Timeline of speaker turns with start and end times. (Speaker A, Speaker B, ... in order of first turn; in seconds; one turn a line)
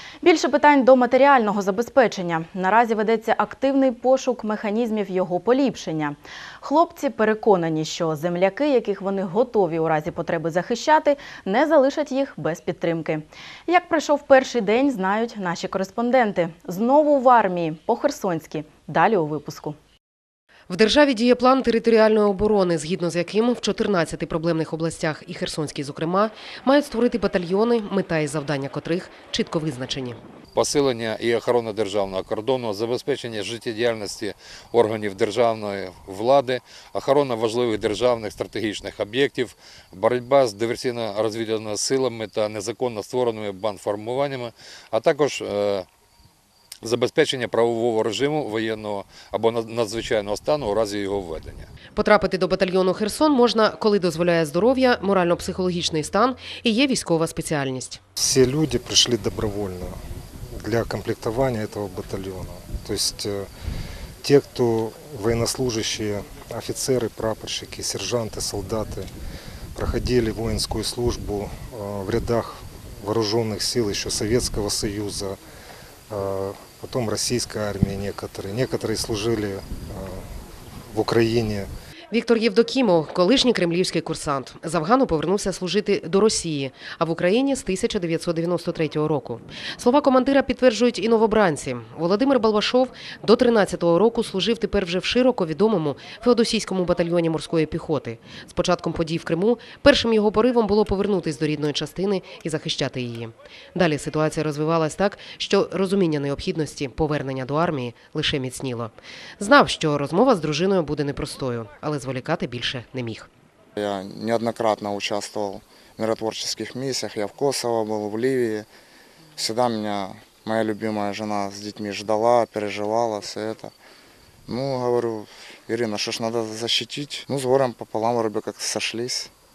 Speaker A: 0.2-19.8
Speaker B: 20.7-30.2
Speaker C: 30.5-45.9
Speaker C: 46.8-51.7
Speaker B: 52.0-58.0
Speaker D: 58.1-60.0
Speaker D: 60.5-63.5
Speaker D: 64.2-69.1
Speaker D: 69.8-75.4
Speaker D: 76.1-80.2
Speaker D: 80.9-81.7
Speaker B: 82.1-113.3
Speaker E: 113.8-118.7
Speaker E: 119.4-123.7
Speaker E: 124.5-129.3